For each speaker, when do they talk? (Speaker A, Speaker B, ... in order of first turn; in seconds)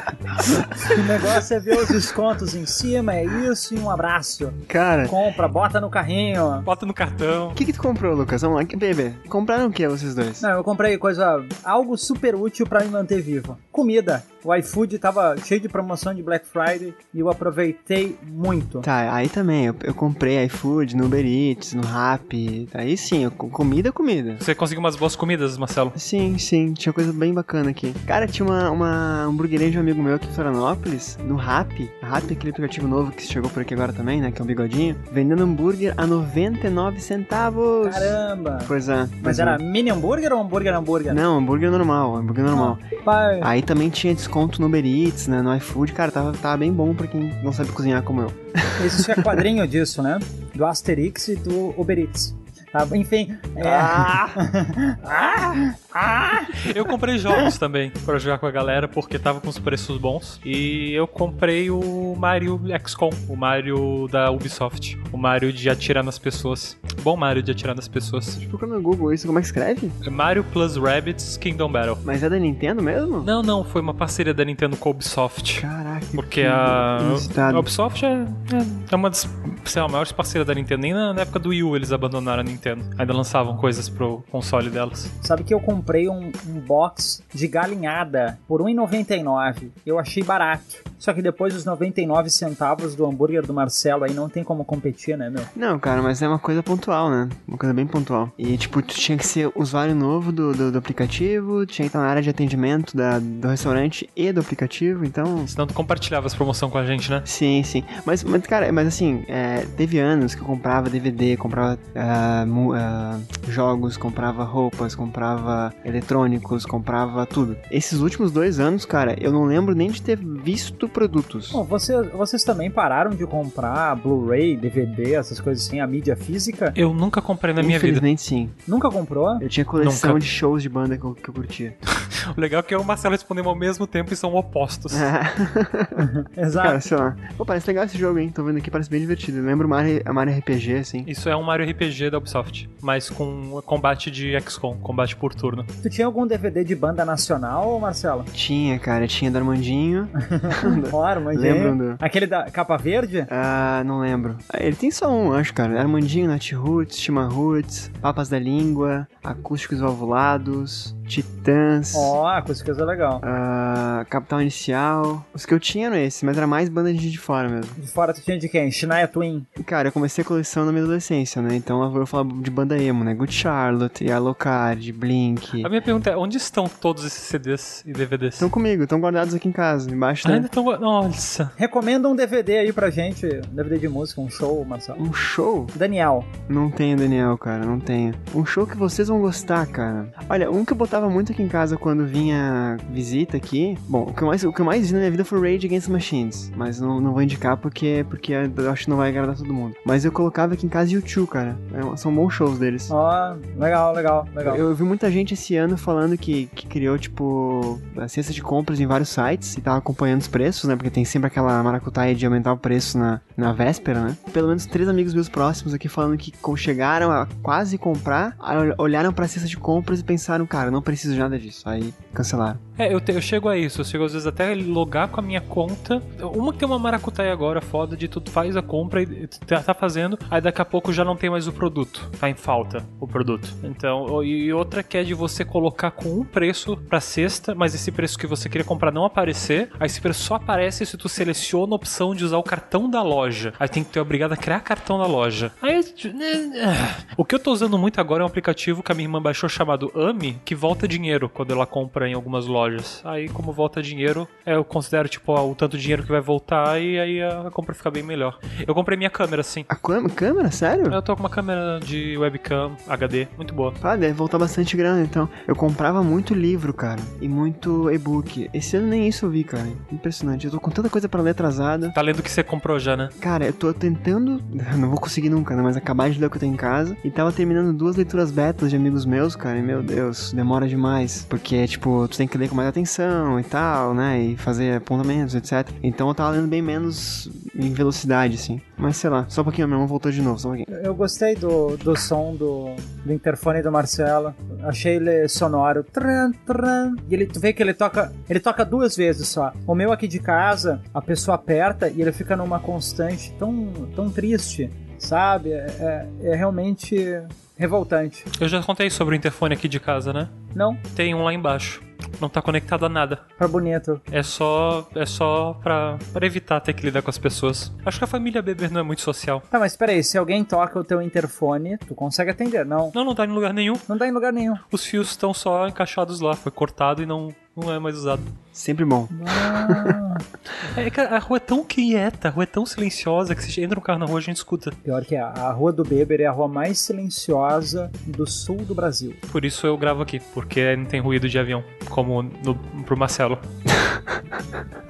Speaker A: 0.4-6.7, 10.4-18.9, 37.8-41.2, 42.5-43.5, 48.8-56.6, 85.2-95.5, 121.5-126.8, 128.7-129.4, 136.0-136.8, 145.8-148.3, 150.2-153.3, 161.9-163.2, 167.8-169.5, 181.6-185.0, 185.7-186.3, 202.9-204.6, 290.7-308.3, 310.5-310.8, 313.4-314.0, 319.5-322.9, 323.9-324.6, 329.1-330.2, 334.8-339.2
Speaker B: 4.7-5.2, 7.5-10.4, 18.8-24.4, 25.9-39.6, 41.1-42.8, 43.4-49.4, 53.6-54.4, 68.3-70.0, 72.0-73.3, 75.6-77.7, 95.5-105.5, 107.2-121.6, 127.6-128.6, 129.4-131.8, 134.9-141.1, 148.3-152.0, 153.3-162.1, 163.2-167.8, 169.6-175.7, 178.4-180.5, 185.0-185.7, 186.5-202.9, 204.4-222.6, 259.7-261.0, 263.8-271.9, 273.2-290.7, 328.5-330.0, 343.7-344.4
Speaker C: 6.7-7.6, 24.4-25.9, 56.5-68.3, 70.0-72.0, 73.2-85.1, 105.5-107.2, 126.8-128.0, 129.8-130.2, 132.1-135.1, 141.1-145.7, 175.6-178.5, 180.2-181.5, 222.8-259.7, 260.9-263.8, 271.9-273.1, 308.4-310.3, 310.9-313.2, 314.1-319.4, 322.9-323.9, 324.7-328.3, 330.6-334.8, 339.3-343.4